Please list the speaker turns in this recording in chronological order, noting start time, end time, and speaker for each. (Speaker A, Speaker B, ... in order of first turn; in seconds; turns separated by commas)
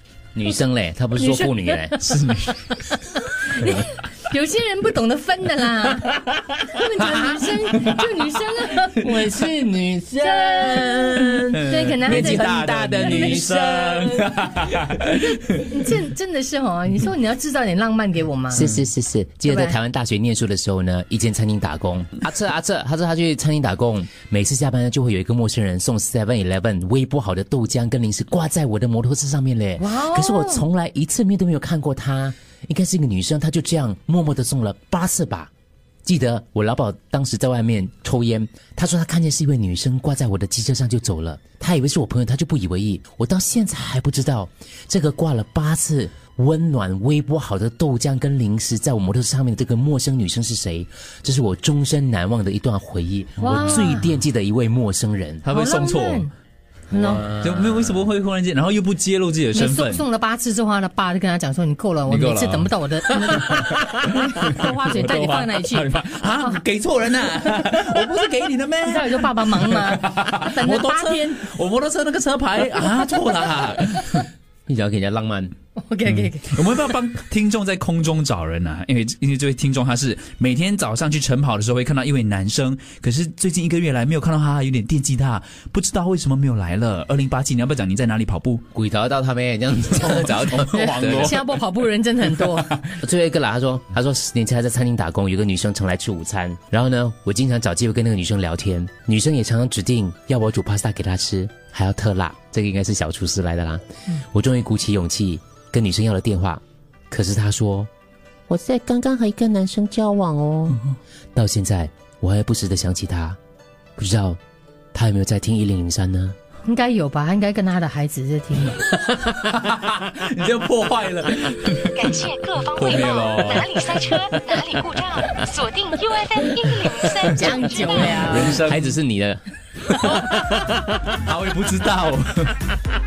Speaker A: 0.3-2.0, Speaker B: 1.2-2.0, Speaker C: 2.0-2.8, Speaker B: 2.7-14.3, Speaker A: 9.0-13.8, Speaker C: 11.7-15.7, Speaker B: 15.2-18.8, Speaker A: 18.5-35.5, Speaker B: 19.4-19.8, Speaker B: 29.8-30.6, Speaker A: 36.0-55.4, Speaker B: 53.4-54.0, Speaker C: 55.4-56.3, Speaker B: 55.5-56.3, Speaker A: 56.9-58.0, Speaker B: 56.9-57.2, Speaker C: 57.0-60.0, Speaker B: 59.5-66.6, Speaker C: 62.1-74.3, Speaker B: 68.8-71.5, Speaker A: 74.7-75.5, Speaker B: 75.8-76.6, Speaker C: 76.1-88.6, Speaker A: 88.7-91.3, Speaker C: 89.9-91.5, Speaker B: 90.6-92.8, Speaker C: 92.5-92.9, Speaker A: 93.0-107.9, Speaker A: 108.5-110.8, Speaker A: 111.3-113.4, Speaker A: 114.0-114.4, Speaker A: 114.9-116.3, Speaker B: 116.6-118.8, Speaker C: 118.9-124.6, Speaker D: 121.9-128.1, Speaker B: 127.2-128.6, Speaker C: 128.1-128.9, Speaker A: 128.2-129.4, Speaker C: 130.0-130.4, Speaker C: 131.1-132.6